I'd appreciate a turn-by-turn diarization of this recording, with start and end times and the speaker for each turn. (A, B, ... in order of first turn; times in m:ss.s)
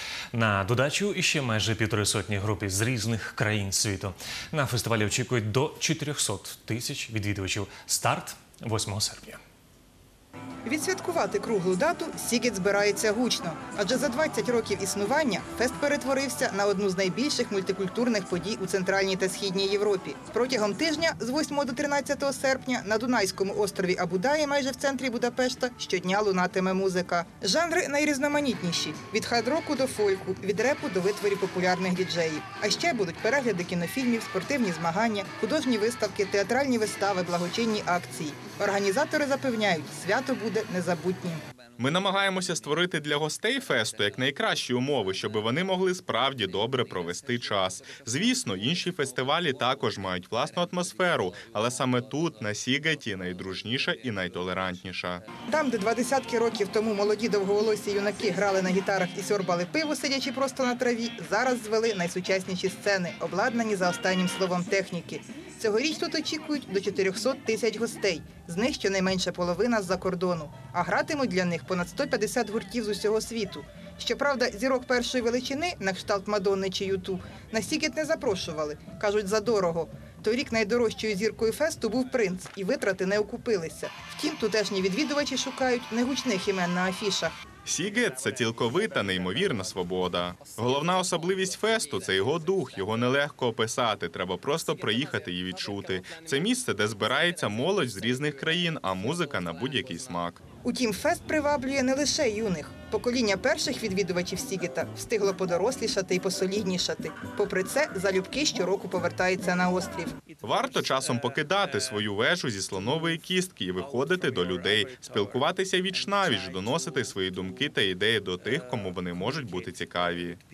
0:00.3-0:09.4 A
0:10.6-0:41.4 B
0:41.8-0:55.2 C
0:55.5-1:27.3 B
1:27.6-1:40.4 C
1:40.6-1:50.2 B
1:50.4-2:00.4 C